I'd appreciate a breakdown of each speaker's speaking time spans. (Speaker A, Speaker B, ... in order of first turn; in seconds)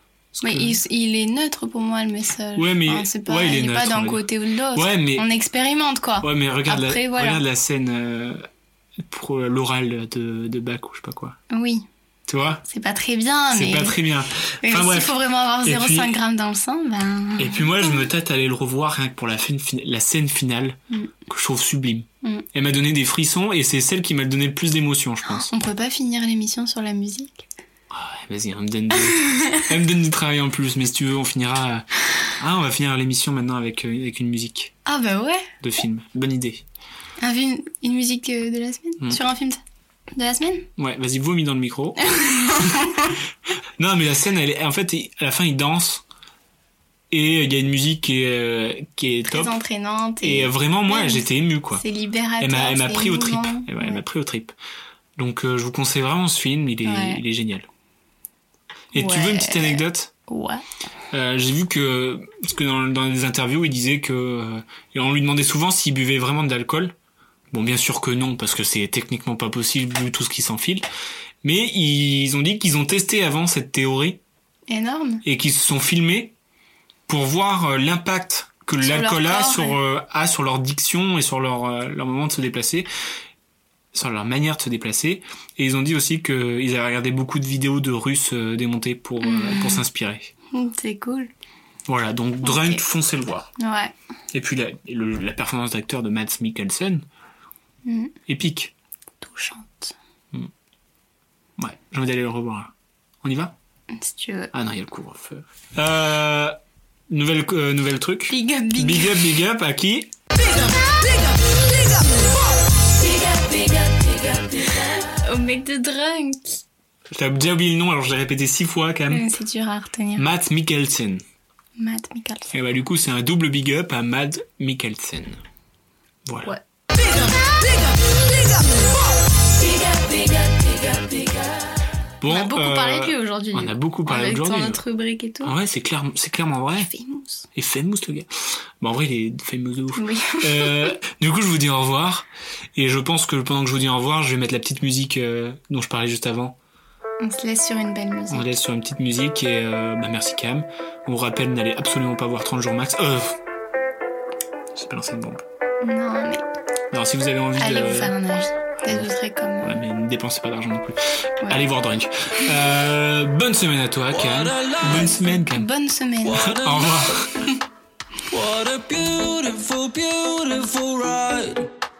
Speaker A: 0.4-0.8, 2.5-5.2, 6.2-8.4, 9.1-11.4, 12.3-12.6, 13.5-16.1, 17.4-25.5, 27.9-31.9, 32.4-34.7, 35.6-36.6, 40.8-42.0, 42.6-42.9, 43.8-46.0, 47.1-49.6, 50.2-51.8, 52.4-54.5, 55.2-57.7, 58.9-60.1, 61.1-66.9, 67.5-70.8, 71.4-74.2, 75.2-76.3, 77.1-82.9, 83.9-90.3, 91.8-93.5, 94.3-97.0, 98.3-98.7, 101.6-103.5, 104.5-106.6, 107.1-110.1, 117.1-119.3, 120.2-121.2, 122.5-125.4, 126.2-126.5, 132.2-134.8, 135.4-136.9, 137.5-138.3, 138.8-146.6, 148.3-153.4, 154.7-155.4, 156.9-158.1, 158.8-159.1, 159.6-165.7, 166.4-167.3
Speaker B: 0.4-7.4, 11.5-11.8, 12.7-14.0, 14.6-18.0, 25.2-27.4, 29.2-29.6, 34.8-35.5, 37.2-39.6, 40.1-40.7, 42.0-43.1, 49.3-54.0, 56.8-57.2, 58.9-60.6, 74.7-75.2, 78.8-79.8, 89.2-89.8, 90.5-91.3, 92.4-92.8, 93.6-93.9, 97.8-98.1, 99.2-99.9, 103.9-104.5, 108.3-109.2, 113.1-116.6, 119.1-120.2, 121.8-122.5, 126.4-127.4, 129.7-131.5, 132.2-135.5, 136.8-137.5, 139.9-140.9, 147.2-148.5, 155.8-156.4, 157.6-159.8, 165.3-166.5
Speaker C: 164.1-165.2, 166.2-167.2, 168.3-171.7